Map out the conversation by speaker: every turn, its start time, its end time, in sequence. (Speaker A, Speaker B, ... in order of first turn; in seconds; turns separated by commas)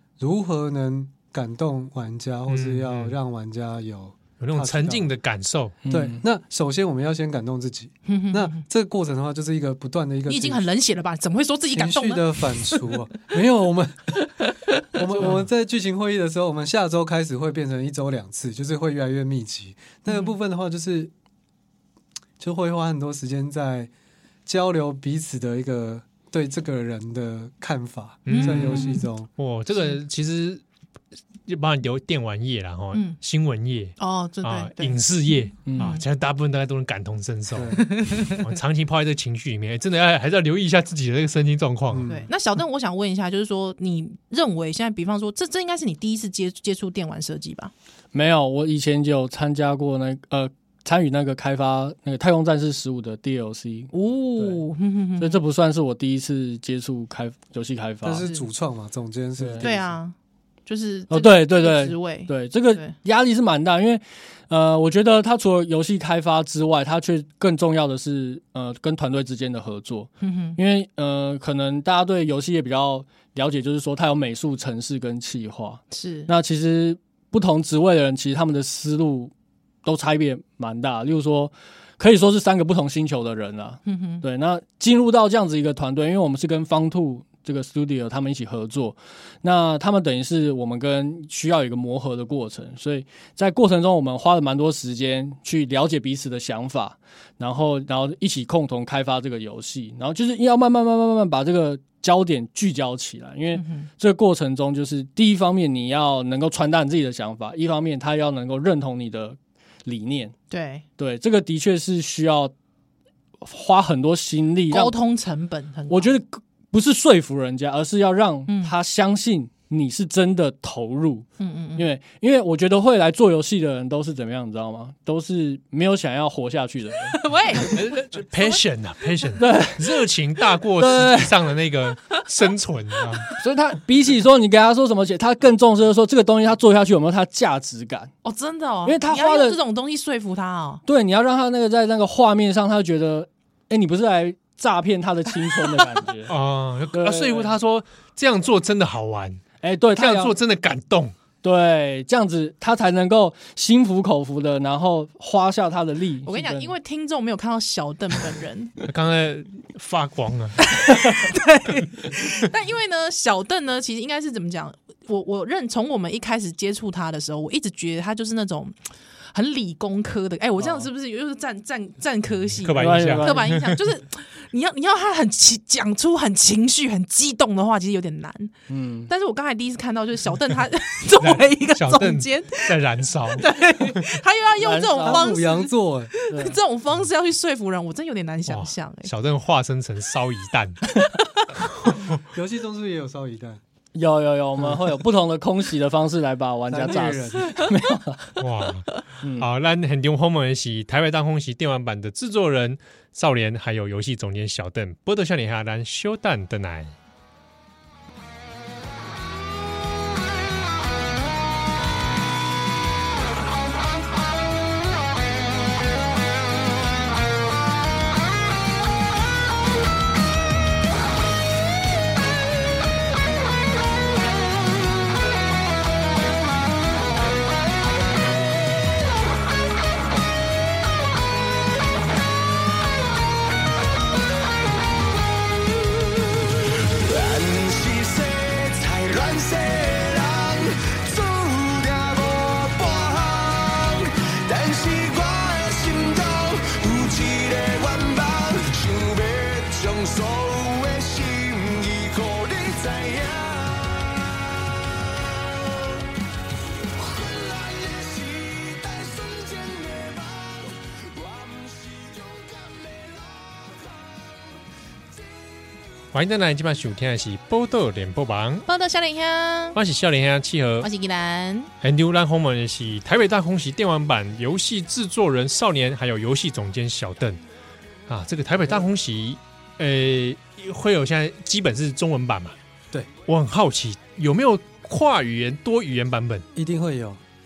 Speaker A: 0.2-5.1, Speaker B: 2.5-3.2, Speaker B: 4.4-5.8, Speaker C: 5.8-6.2, Speaker A: 5.9-10.7, Speaker D: 8.1-8.6, Speaker D: 10.3-12.8, Speaker A: 11.7-14.2, Speaker D: 14.4-14.8, Speaker A: 14.9-21.1, Speaker D: 20.1-20.3, Speaker A: 22.4-23.9, Speaker A: 24.4-29.3, Speaker B: 28.2-30.6, Speaker D: 28.3-29.1, Speaker B: 31.5-42.1, Speaker D: 32.9-33.2, Speaker D: 34.0-35.0, Speaker C: 35.6-35.9, Speaker D: 35.7-36.0, Speaker A: 37.5-37.8, Speaker D: 37.8-38.4, Speaker A: 41.9-42.3, Speaker D: 42.1-47.7, Speaker C: 48.1-54.6, Speaker D: 53.9-55.4, Speaker C: 55.2-58.3, Speaker A: 58.0-59.9, Speaker C: 59.4-59.7, Speaker D: 59.6-60.1, Speaker D: 60.6-63.0, Speaker C: 61.1-79.3, Speaker D: 70.2-70.6, Speaker D: 75.9-76.3, Speaker C: 79.8-110.3, Speaker D: 83.8-84.2, Speaker D: 103.5-103.9, Speaker D: 110.5-110.8, Speaker C: 111.0-112.5, Speaker C: 113.4-114.9, Speaker D: 114.7-116.1, Speaker C: 115.9-127.2, Speaker D: 118.5-118.7, Speaker D: 121.4-121.9, Speaker D: 127.1-128.6, Speaker B: 127.7-133.3, Speaker C: 129.4-129.9, Speaker C: 130.8-131.4, Speaker C: 133.3-138.1, Speaker D: 138.2-140.8, Speaker C: 138.8-139.6, Speaker C: 140.8-146.3, Speaker B: 146.3-149.4, Speaker C: 146.9-147.5, Speaker C: 149.6-150.3, Speaker B: 149.9-151.1, Speaker C: 151.4-156.7, Speaker D: 156.2-158.7, Speaker B: 158.8-160.7, Speaker D: 160.6-168.8, Speaker D: 169.3-178.5, Speaker C: 170.6-170.9, Speaker B: 172.6-173.8, Speaker C: 172.8-173.5, Speaker C: 178.7-179.1, Speaker D: 179.1-182.8, Speaker B: 181.2-184.0, Speaker D: 183.3-189.1, Speaker C: 184.6-185.2, Speaker A: 185.0-186.1, Speaker C: 186.3-186.6, Speaker B: 188.5-190.8, Speaker D: 190.9-191.5, Speaker B: 191.8-192.2, Speaker A: 192.3-193.6, Speaker C: 193.9-198.3, Speaker A: 196.7-197.6, Speaker B: 198.4-206.9, Speaker C: 199.2-199.5, Speaker E: 236.9-256.0, Speaker E: 256.9-264.6, Speaker B: 266.1-268.6, Speaker D: 268.6-269.8, Speaker B: 269.7-270.9, Speaker D: 270.8-271.7, Speaker B: 271.8-277.4, Speaker B: 278.1-282.6, Speaker B: 283.3-286.4, Speaker A: 286.5-287.2